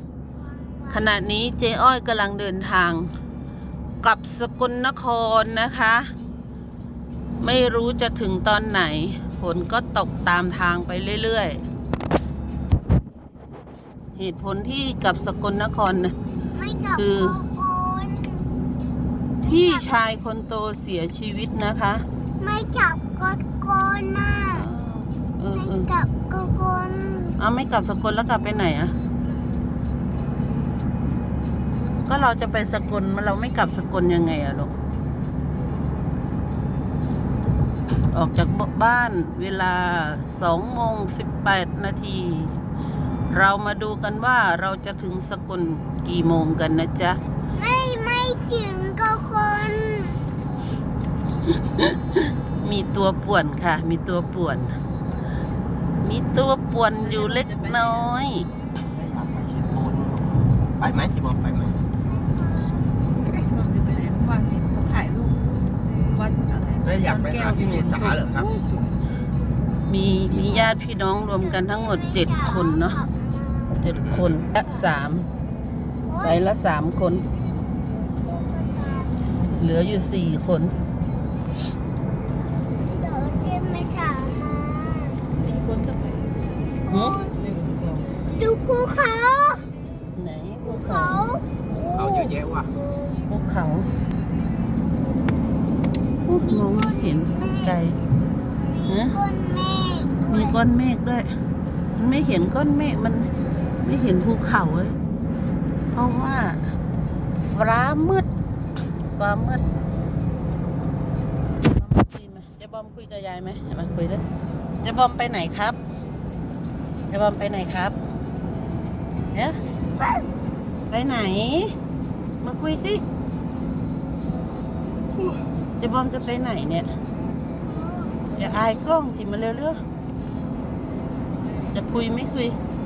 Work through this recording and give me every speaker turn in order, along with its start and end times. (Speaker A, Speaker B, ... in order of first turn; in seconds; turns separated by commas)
Speaker A: 0.3-1.1, Speaker B: 0.9-3.1, Speaker B: 4.0-6.1, Speaker B: 7.4-11.6, Speaker B: 14.1-16.1, Speaker A: 16.5-18.7, Speaker B: 16.9-17.4, Speaker A: 19.4-20.0, Speaker B: 19.4-22.0, Speaker A: 22.4-24.7, Speaker B: 24.5-25.9, Speaker A: 25.5-27.4, Speaker B: 27.4-28.9, Speaker B: 32.0-34.7, Speaker B: 38.1-42.6, Speaker B: 43.3-47.2, Speaker A: 47.5-50.2, Speaker B: 51.8-54.8, Speaker B: 56.0-58.5, Speaker C: 57.1-57.9, Speaker D: 58.9-61.8, Speaker A: 62.0-63.0, Speaker C: 63.2-65.3, Speaker C: 66.1-68.9, Speaker D: 66.8-68.5, Speaker B: 69.9-73.0, Speaker C: 70.3-70.7, Speaker A: 71.4-73.9, Speaker B: 73.7-75.3, Speaker A: 74.5-74.9, Speaker A: 76.0-76.5, Speaker B: 76.2-77.2, Speaker A: 78.2-79.3, Speaker B: 79.5-80.7, Speaker A: 82.7-85.3, Speaker C: 85.3-86.3, Speaker A: 86.9-87.4, Speaker B: 86.9-87.2, Speaker C: 87.4-88.1, Speaker A: 88.3-89.7, Speaker B: 90.2-91.2, Speaker A: 90.6-92.4, Speaker D: 91.9-92.7, Speaker B: 93.3-93.9, Speaker B: 96.2-98.0, Speaker A: 96.4-97.8, Speaker A: 98.7-100.6, Speaker B: 98.9-99.2, Speaker B: 100.3-101.3, Speaker B: 102.0-103.3, Speaker B: 103.8-105.0, Speaker B: 105.9-106.7, Speaker B: 107.4-108.3, Speaker B: 109.1-109.6, Speaker B: 111.6-114.2, Speaker B: 114.8-115.8, Speaker B: 117.1-118.0, Speaker B: 119.3-119.6, Speaker B: 120.9-121.7, Speaker B: 122.4-123.0, Speaker B: 125.8-126.9, Speaker A: 127.6-128.4, Speaker B: 128.3-129.8, Speaker B: 131.7-132.6